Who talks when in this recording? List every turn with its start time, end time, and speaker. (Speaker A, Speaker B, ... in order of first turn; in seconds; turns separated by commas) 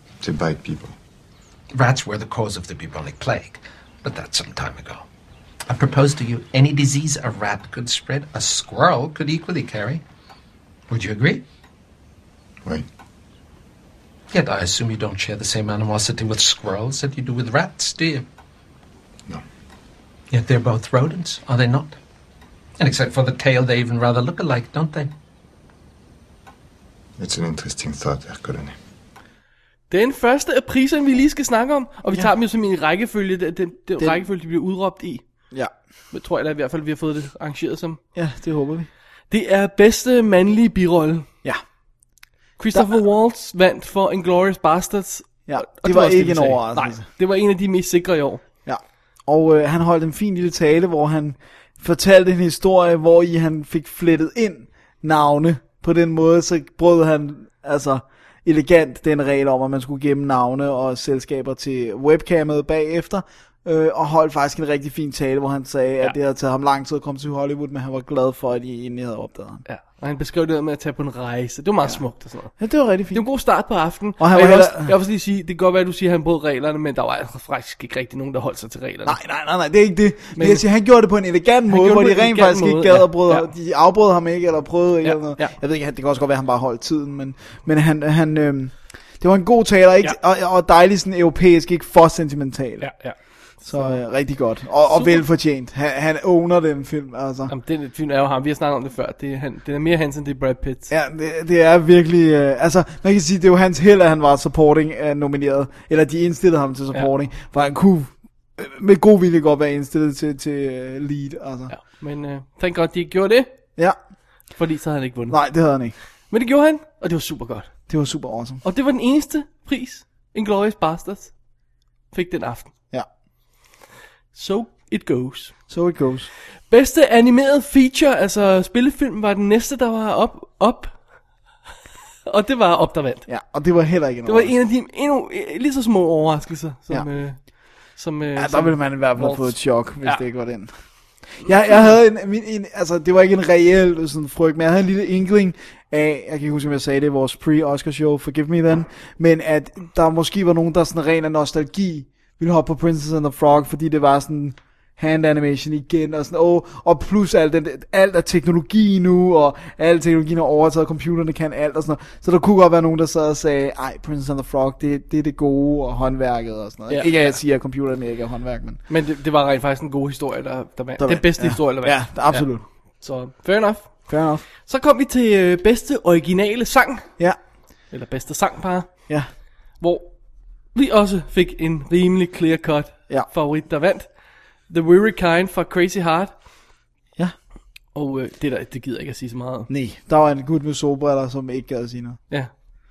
Speaker A: 0.2-0.9, Speaker B: 1.7-5.0, Speaker B: 5.7-10.0, Speaker B: 10.9-11.4, Speaker B: 14.3-18.3, Speaker B: 20.3-22.0, Speaker B: 22.8-25.1, Speaker A: 27.2-28.7, Speaker C: 29.9-35.2, Speaker D: 34.0-34.2, Speaker C: 36.1-38.0, Speaker D: 38.1-38.9, Speaker C: 39.3-41.3, Speaker C: 42.6-48.4, Speaker D: 45.5-47.0, Speaker D: 48.6-69.6, Speaker C: 69.7-72.6, Speaker D: 72.5-73.2, Speaker C: 73.1-79.2, Speaker D: 74.2-74.9, Speaker D: 79.0-93.0, Speaker C: 80.3-80.6, Speaker C: 81.7-83.5, Speaker C: 85.0-85.5, Speaker C: 92.8-94.1, Speaker D: 93.7-97.5, Speaker C: 94.9-95.2, Speaker C: 97.5-100.9, Speaker D: 100.9-111.7, Speaker C: 111.7-113.5, Speaker C: 114.5-115.4, Speaker D: 115.3-115.9, Speaker C: 116.3-117.7, Speaker D: 117.9-118.6, Speaker C: 118.6-121.3, Speaker C: 122.1-122.7, Speaker C: 124.3-125.5, Speaker D: 125.7-126.3, Speaker C: 126.7-131.0, Speaker C: 132.2-133.3, Speaker D: 133.3-134.5, Speaker C: 134.2-140.2, Speaker D: 138.3-140.7, Speaker D: 141.3-168.8, Speaker C: 166.9-167.4, Speaker C: 168.9-177.1, Speaker D: 171.0-172.6, Speaker D: 174.1-174.4, Speaker C: 177.9-179.1, Speaker C: 179.8-180.1, Speaker C: 180.7-184.1, Speaker C: 184.7-186.3, Speaker C: 187.9-189.7, Speaker D: 189.7-192.2